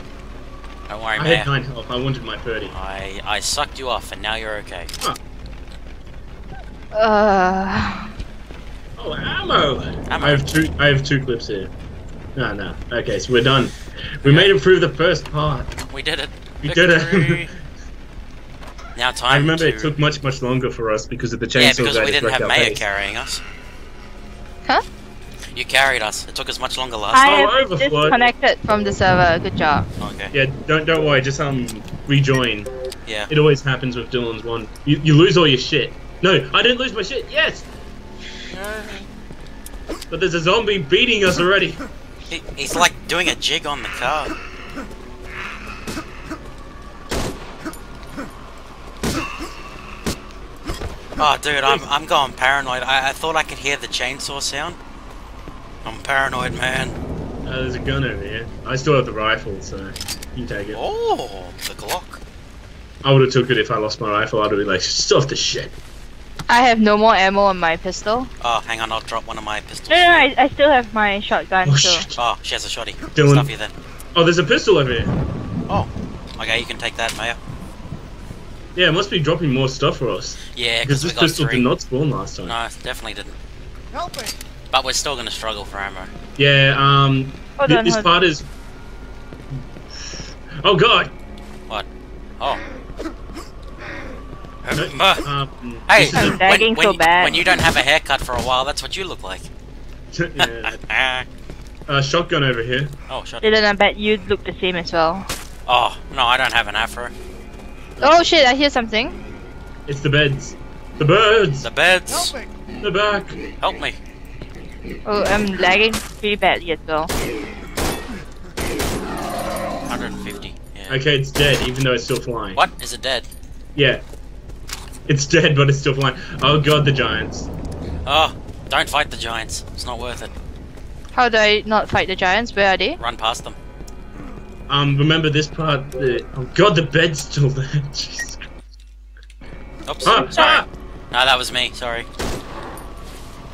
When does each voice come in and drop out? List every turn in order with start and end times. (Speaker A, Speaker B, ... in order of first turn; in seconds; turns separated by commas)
Speaker A: 0.9-1.5, Speaker B: 1.2-2.7, Speaker A: 2.7-4.9, Speaker C: 6.9-8.1, Speaker B: 9.0-11.7, Speaker A: 10.1-10.5, Speaker B: 12.4-15.7, Speaker A: 14.2-14.5, Speaker A: 15.9-17.5, Speaker B: 16.6-17.6, Speaker A: 19.0-19.9, Speaker B: 19.3-22.8, Speaker A: 21.6-23.4, Speaker A: 25.5-27.4, Speaker C: 27.1-29.9, Speaker B: 27.2-28.2, Speaker A: 30.0-30.3, Speaker B: 30.3-32.7, Speaker A: 33.1-33.3, Speaker B: 33.3-37.7, Speaker A: 38.5-39.1, Speaker B: 40.1-41.9, Speaker A: 42.3-44.4, Speaker A: 51.2-54.8, Speaker A: 55.8-57.0, Speaker B: 57.5-60.8, Speaker A: 60.7-62.2, Speaker B: 63.0-65.7, Speaker C: 66.5-68.3, Speaker A: 68.4-70.3, Speaker C: 69.9-72.1, Speaker B: 71.7-72.2, Speaker A: 72.2-73.7, Speaker B: 73.2-73.5, Speaker B: 74.1-75.2, Speaker A: 75.7-77.4, Speaker B: 78.8-82.6, Speaker A: 80.5-81.7, Speaker A: 82.5-83.4, Speaker A: 84.7-86.1, Speaker B: 86.4-88.5, Speaker C: 87.6-88.1, Speaker B: 89.5-91.2, Speaker A: 94.6-95.3, Speaker B: 94.7-96.4, Speaker A: 95.9-99.5, Speaker C: 96.2-97.5, Speaker B: 100.1-100.8, Speaker A: 100.4-101.3, Speaker B: 101.9-103.0, Speaker A: 103.1-103.6, Speaker C: 103.4-105.3, Speaker A: 105.7-107.1, Speaker C: 108.0-109.2, Speaker B: 109.9-111.7, Speaker A: 111.6-112.4, Speaker B: 112.8-113.4, Speaker A: 113.6-114.0, Speaker C: 115.1-117.1, Speaker A: 119.9-121.0, Speaker B: 120.9-122.6, Speaker A: 122.6-123.3, Speaker B: 123.8-124.0, Speaker B: 125.1-127.5, Speaker A: 128.1-130.3, Speaker C: 131.1-133.0, Speaker A: 133.0-133.6, Speaker B: 134.7-138.4, Speaker A: 139.9-142.1, Speaker B: 140.1-140.7